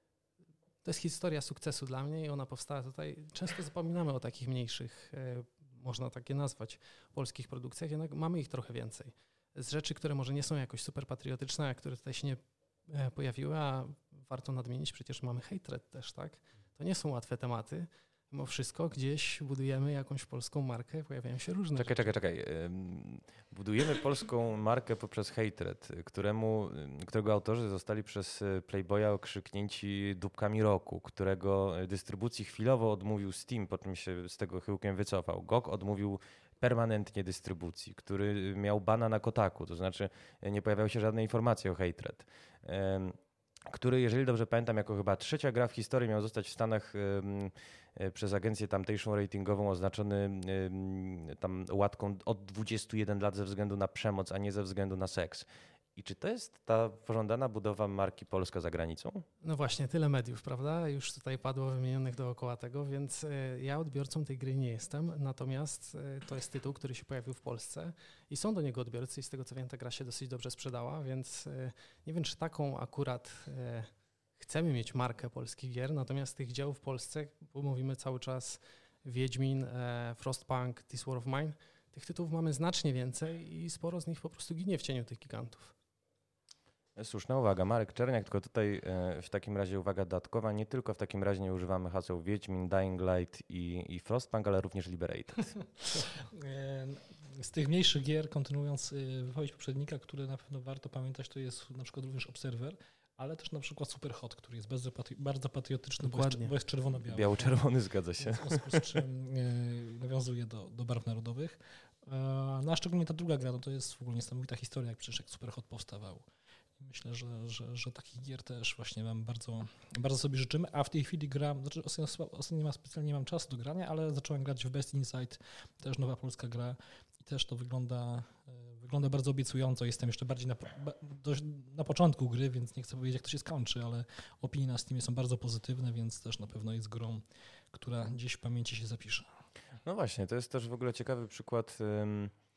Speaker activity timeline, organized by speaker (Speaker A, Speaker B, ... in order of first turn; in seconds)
Speaker A: 0.8-22.1, 59.4-85.7, 106.0-106.5
Speaker B: 21.8-59.2, 87.0-95.5, 107.1-109.0, 139.8-142.3
Speaker C: 95.9-107.5, 108.2-116.2, 116.8-139.3